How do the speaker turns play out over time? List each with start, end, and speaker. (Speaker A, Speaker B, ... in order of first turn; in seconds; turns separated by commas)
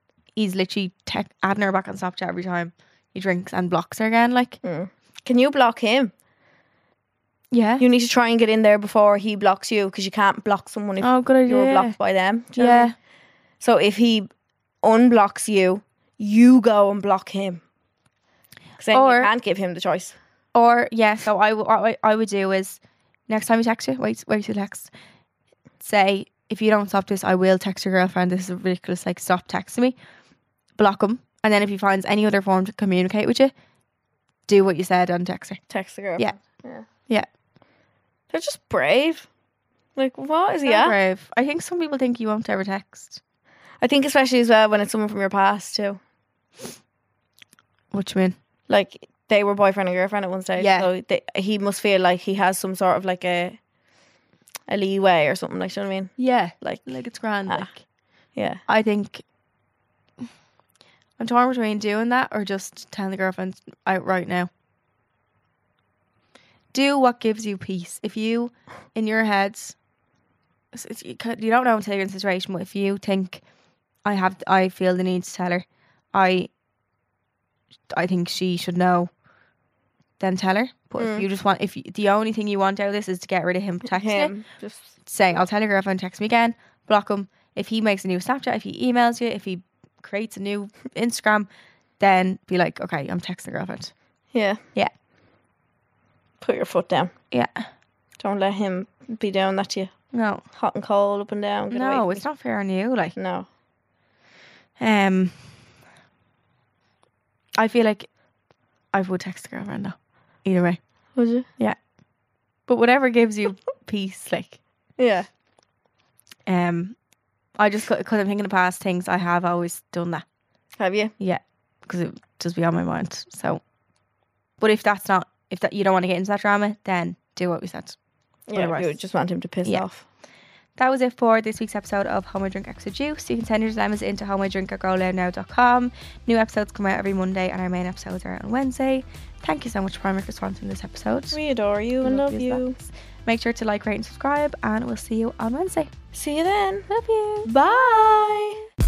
Speaker A: 0.3-4.6, Speaker B: 4.6-6.1, Speaker A: 7.5-7.8, Speaker B: 7.8-12.9, Speaker A: 11.0-11.9, Speaker A: 12.6-12.9, Speaker B: 13.6-14.3, Speaker B: 14.8-17.6, Speaker B: 18.8-20.1, Speaker A: 18.9-19.3, Speaker A: 20.5-24.9, Speaker A: 25.8-30.0, Speaker A: 30.8-33.5, Speaker A: 34.5-35.6, Speaker B: 35.7-36.9, Speaker A: 37.0-37.3, Speaker B: 38.3-39.3, Speaker B: 40.0-41.0, Speaker A: 40.6-43.2, Speaker B: 43.8-46.0, Speaker A: 47.9-48.4, Speaker B: 48.7-53.6, Speaker A: 50.6-50.9, Speaker B: 54.7-57.7, Speaker A: 56.2-57.8, Speaker B: 58.4-58.6, Speaker A: 58.7-59.2, Speaker A: 61.2-64.5, Speaker A: 66.7-69.7, Speaker A: 70.7-73.4, Speaker A: 74.0-76.5, Speaker A: 77.9-79.1, Speaker A: 80.2-84.3, Speaker B: 81.0-81.3, Speaker B: 83.8-84.9, Speaker A: 85.0-91.5, Speaker A: 92.0-93.9, Speaker B: 94.3-94.6, Speaker B: 96.4-97.1, Speaker A: 97.3-97.7, Speaker B: 98.2-99.9, Speaker A: 100.1-100.4, Speaker B: 100.5-102.2, Speaker A: 101.7-103.2, Speaker B: 103.1-103.5, Speaker A: 104.8-105.6, Speaker A: 107.6-108.1, Speaker A: 108.9-110.8, Speaker B: 111.2-111.5, Speaker A: 112.7-114.6, Speaker B: 115.0-115.3, Speaker A: 116.5-116.9, Speaker A: 117.6-120.2, Speaker B: 120.8-121.1, Speaker A: 121.2-123.6, Speaker A: 124.6-128.0, Speaker B: 128.5-130.0, Speaker A: 128.5-129.0, Speaker A: 130.8-141.4, Speaker B: 141.3-142.8, Speaker A: 142.0-145.9, Speaker B: 146.1-146.9, Speaker A: 146.9-148.2, Speaker B: 147.4-148.5